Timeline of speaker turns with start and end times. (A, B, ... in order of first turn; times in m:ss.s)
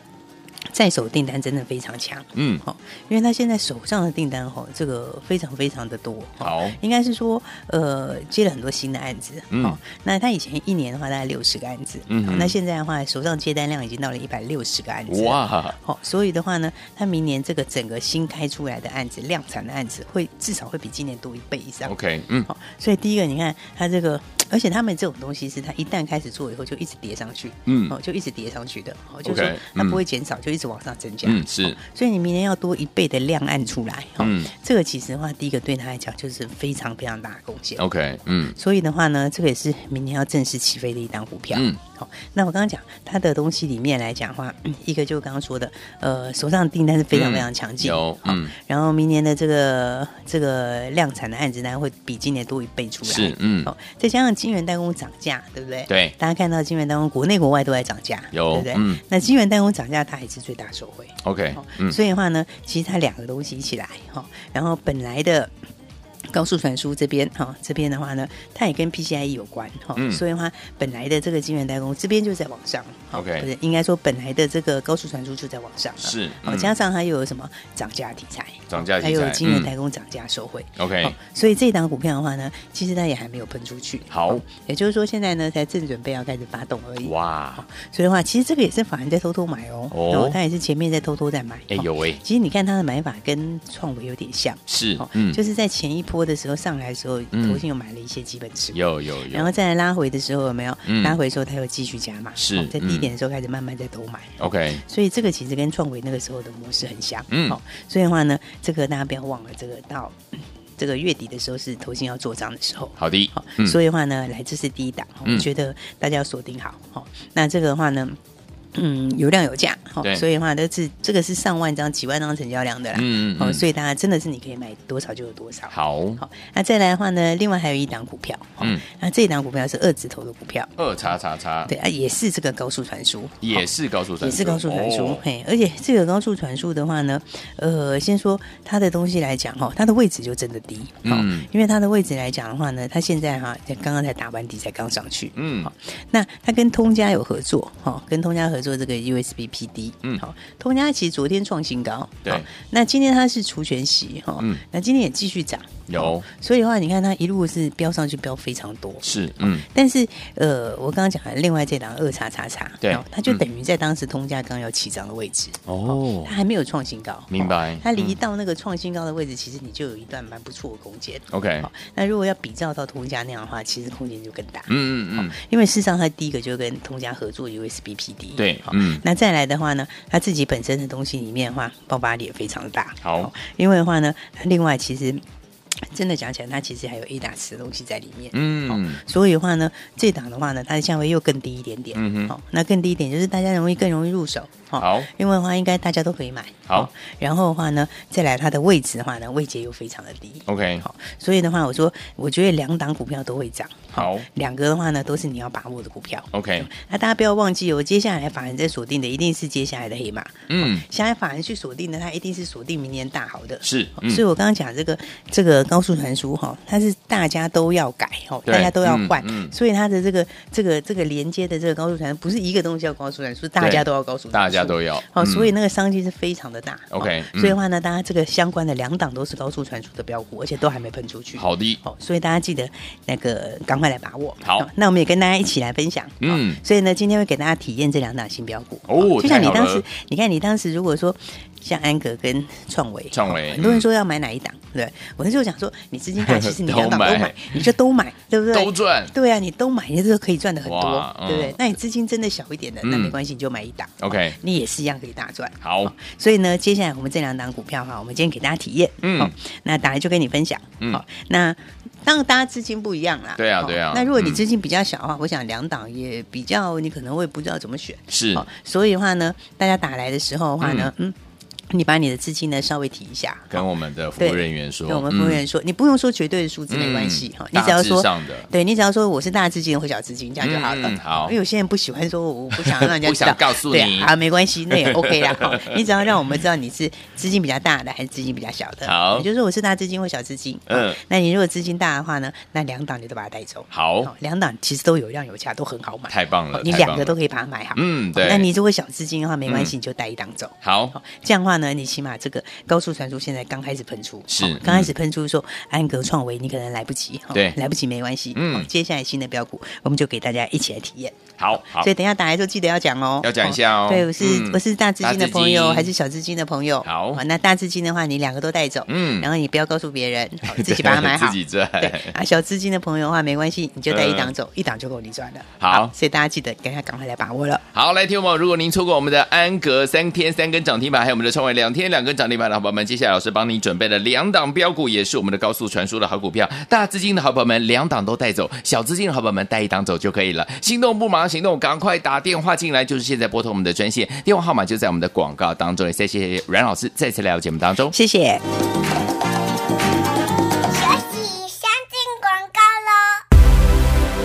0:00.7-0:21.9 A
0:02.4-0:02.6 B
0:06.4-0:06.8 B
0:09.5-0:09.8 B
0:12.1-0:12.5 B
0:15.1-0:15.8 B
0:21.8-0:22.5 B
0:22.5-0:37.8 A
0:27.6-0:28.0 B
0:29.2-0:30.0 B
0:31.2-0:31.8 B
0:34.2-0:34.5 B
0:37.8-0:38.6 B
0:38.5-1:05.5 A
0:41.5-0:41.8 B
0:47.1-0:48.5 B
0:53.0-0:53.7 B
0:55.9-0:56.1 B
0:58.3-0:59.0 B
1:01.2-1:02.0 B
1:06.3-1:50.2 A
1:10.0-1:10.2 B
1:13.1-1:13.5 B
1:16.0-1:16.7 B
1:18.7-1:19.7 B
1:20.8-1:21.1 B
1:24.1-1:24.4 B
1:27.0-1:27.6 B
1:29.9-1:30.4 B
1:31.7-1:32.2 B
1:34.7-1:35.4 B
1:37.3-1:37.6 B
1:38.7-1:39.5 B
1:40.8-1:41.2 B
1:42.4-1:43.1 B
1:44.4-1:44.8 B
1:47.3-1:47.6 B
1:50.8-1:58.2 A
1:53.0-1:53.8 B
1:58.7-2:10.7 A
2:02.9-2:03.6 B
2:05.7-2:06.2 B
2:10.8-2:11.7 B
2:11.6-2:13.7 A
2:13.4-2:15.2 B
2:14.2-3:05.2 A
2:21.0-2:21.5 B
2:25.4-2:25.7 B
2:35.9-2:36.2 B
2:39.0-2:39.6 B
2:42.8-2:43.4 B
2:45.7-2:46.3 B
2:47.3-2:48.2 B
2:51.3-2:51.7 B
2:54.7-2:55.3 B
2:58.4-2:59.0 B
3:03.0-3:03.3 B
3:05.9-4:31.2 A
3:08.3-3:09.0 B
3:11.9-3:12.3 B
3:14.8-3:15.1 B
3:20.5-3:20.8 B
3:24.0-3:24.3 B
3:26.3-3:26.7 B
3:30.5-3:30.8 B
3:33.6-3:34.2 B
3:38.4-3:39.5 B
3:43.6-3:45.5 B
3:46.9-3:47.6 B
3:51.4-3:51.8 B
3:54.4-3:54.7 B
3:56.2-3:56.6 B
3:58.9-3:59.8 B
4:03.1-4:03.8 B
4:06.2-4:07.6 B
4:08.5-4:09.1 B
4:10.6-4:11.6 B
4:12.8-4:13.2 B
4:14.0-4:14.4 B
4:15.6-4:15.9 B
4:19.0-4:19.3 B
4:23.4-4:24.4 B
4:28.1-4:28.4 B
4:30.6-4:30.9 B
4:31.7-4:33.7 A
4:33.5-4:35.4 B
4:34.2-5:27.6 A
4:36.7-4:38.5 B
4:40.4-4:41.4 B
4:42.6-4:44.1 B
4:44.7-4:45.8 B
4:48.8-4:49.3 B
4:50.7-4:51.0 B
4:53.7-4:54.1 B
4:56.1-4:57.2 B
4:57.7-4:58.5 B
4:59.4-4:59.7 B
5:00.6-5:00.9 B
5:04.3-5:04.9 B
5:08.3-5:08.7 B
5:11.4-5:11.9 B
5:13.2-5:15.9 B
5:16.8-5:17.2 B
5:18.9-5:19.3 B
5:20.4-5:22.1 B
5:23.9-5:24.3 B
5:25.6-5:25.9 B
5:27.7-5:47.9 B
5:47.9-5:48.4 A
5:50.7-5:53.2 C